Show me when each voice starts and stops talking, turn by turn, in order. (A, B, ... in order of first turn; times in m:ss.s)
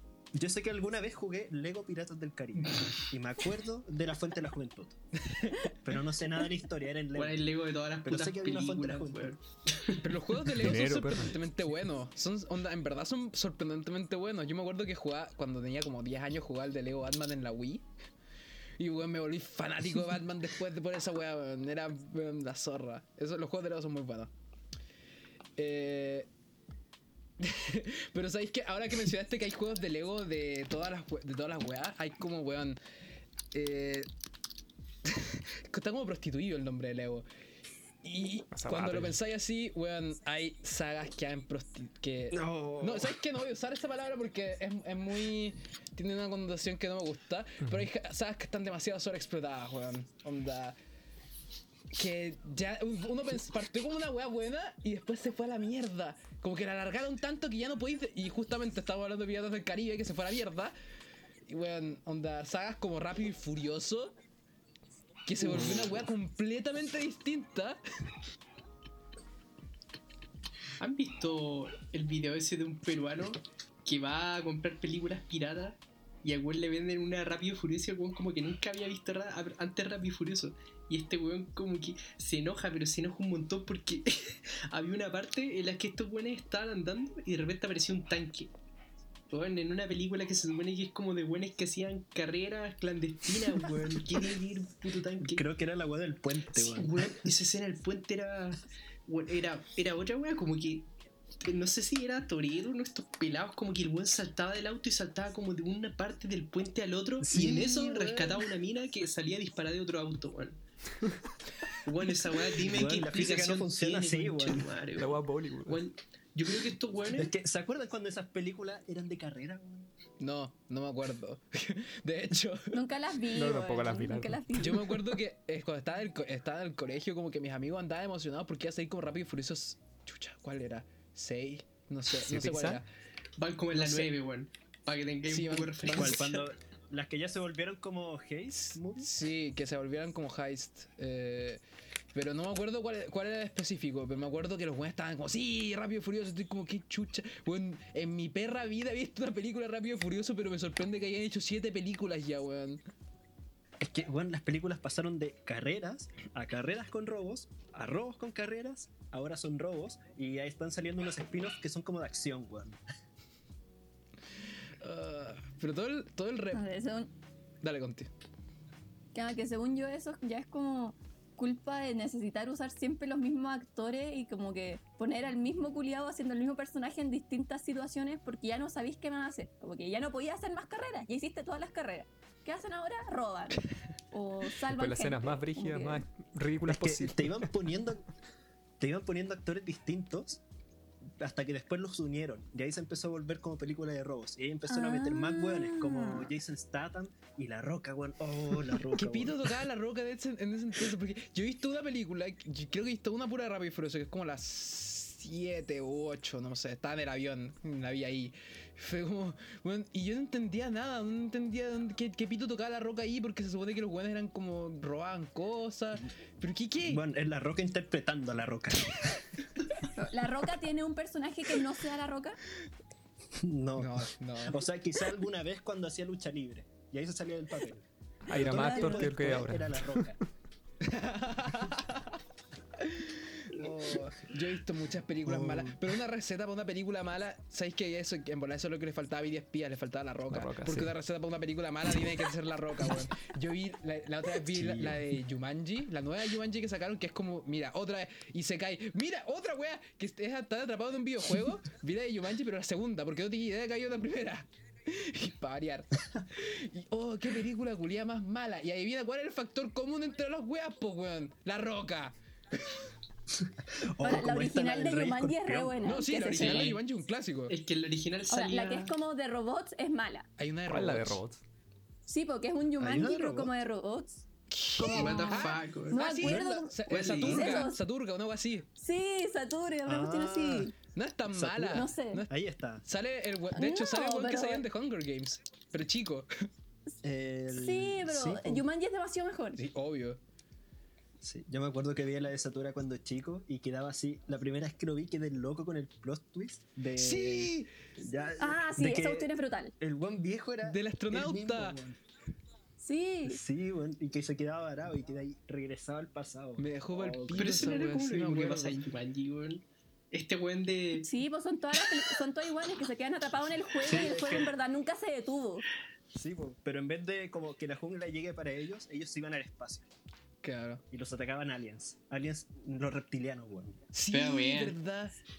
0:00.3-0:05.0 A
0:05.2-0:05.6 B
0:05.8-0:07.4 A
0:07.1-0:10.0 C
0:08.0-0:09.3 A
0:10.0-0:17.8 B
0:10.4-0:11.4 D
0:18.8-0:24.3 B
0:25.6-0:26.3 B
0:27.4-0:32.8 B
0:33.5-0:34.1 B
0:35.0-0:37.2 B
0:38.0-0:50.8 B
0:38.5-0:39.2 D
0:42.3-0:43.2 A
0:51.9-1:00.7 B
1:01.5-1:04.1 B
1:05.2-1:07.8 B
1:10.8-1:28.5 C
1:29.3-1:35.4 C
1:35.2-1:37.3 A
1:36.5-1:40.9 C
1:41.4-1:50.6 C
1:47.2-1:48.4 A
1:51.8-1:57.3 C
1:52.6-1:54.7 A
1:55.0-1:55.8 D
1:57.1-1:59.9 A
2:00.2-2:02.8 B
2:02.7-2:04.9 E
2:03.2-2:04.9 D
2:04.6-2:12.8 B
2:12.2-2:12.8 D
2:13.4-2:16.4 C
2:13.7-2:14.1 B
2:15.3-2:16.2 B
2:15.9-2:19.1 A
2:18.5-2:21.6 B
2:22.1-2:32.8 B
2:33.8-2:42.8 A
2:44.8-2:46.6 B
2:46.5-2:47.1 E
2:47.6-2:48.1 B
2:49.1-3:06.0 E
3:04.6-3:07.5 D
3:06.7-3:08.0 A
3:08.8-3:10.4 A
3:11.2-3:19.5 A
3:14.7-3:16.3 E
3:18.9-3:37.0 B
3:36.9-3:39.2 A
3:39.8-3:42.4 E
3:43.4-3:50.2 A
3:43.8-3:44.6 B
3:48.3-3:50.1 D
3:48.4-3:49.1 E
3:50.8-3:52.2 B
3:52.8-4:22.1 B
3:55.2-3:55.8 A
4:00.3-4:00.9 D
4:04.5-4:05.0 A
4:23.4-4:25.9 A
4:24.0-4:26.8 E
4:25.8-4:27.5 B
4:26.3-4:26.8 C
4:27.5-4:28.9 C
4:28.3-4:30.3 E
4:30.4-4:31.2 B
4:30.7-4:31.4 D
4:32.0-4:34.2 E
4:32.8-4:33.5 A
4:34.5-4:38.7 B
4:34.8-4:37.8 E
4:34.8-4:36.0 C
4:36.2-4:37.5 A
4:36.9-4:37.6 C
4:38.8-4:40.7 E
4:39.8-4:40.7 A
4:40.9-4:46.4 B
4:41.3-4:42.8 A
4:41.7-4:42.2 E
4:43.5-4:44.6 E
4:47.0-4:48.6 A
4:47.5-4:49.6 E
4:49.6-4:50.2 B
4:51.2-5:02.0 A
4:56.9-4:57.7 B
4:58.4-4:59.7 E
5:00.6-5:01.8 B
5:02.8-5:03.4 E
5:03.2-5:07.7 A
5:06.6-5:08.8 B
5:07.3-5:11.1 C
5:11.0-5:15.6 E
5:13.8-5:14.6 A
5:16.1-5:19.8 A
5:20.4-5:20.8 B
5:20.9-5:23.8 A
5:23.9-5:25.1 B
5:24.1-5:24.8 C